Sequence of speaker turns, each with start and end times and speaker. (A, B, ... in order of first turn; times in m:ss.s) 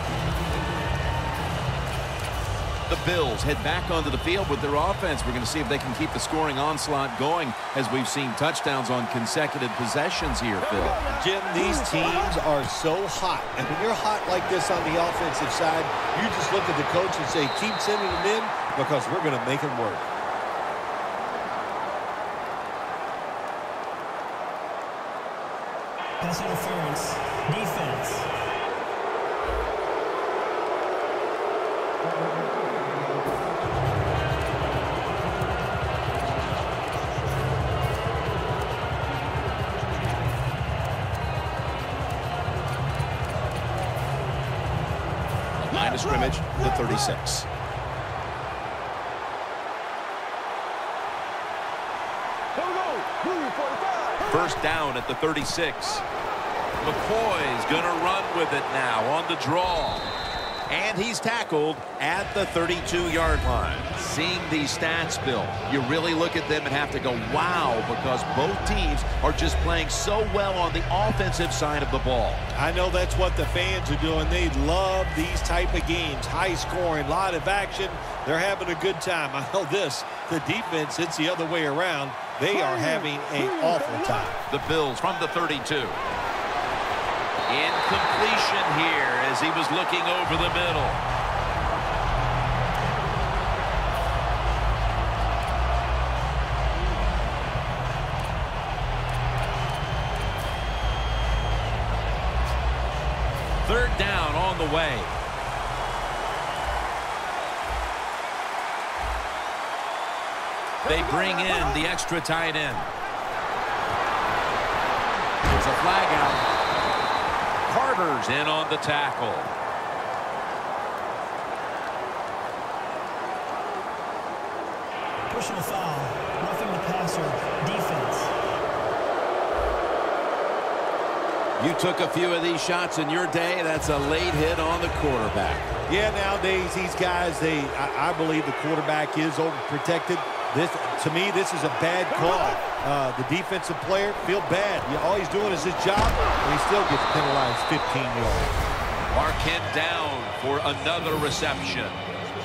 0:02.9-0:11.0 A
0:11.1-0:20.1 B
0:26.2-0:28.3 C
0:45.6-0:47.5 A
0:54.3-0:56.0 A
0:56.8-1:00.1 A
1:00.7-1:12.4 A
1:12.5-1:24.4 B
1:24.5-1:26.0 A
1:27.5-1:31.0 A
1:43.6-1:45.2 A
1:50.8-1:52.9 A
1:55.4-1:56.5 A
1:57.7-1:59.5 A
2:05.3-2:08.4 C
2:11.6-2:15.7 A
2:15.9-2:28.6 B
2:29.1-2:32.0 A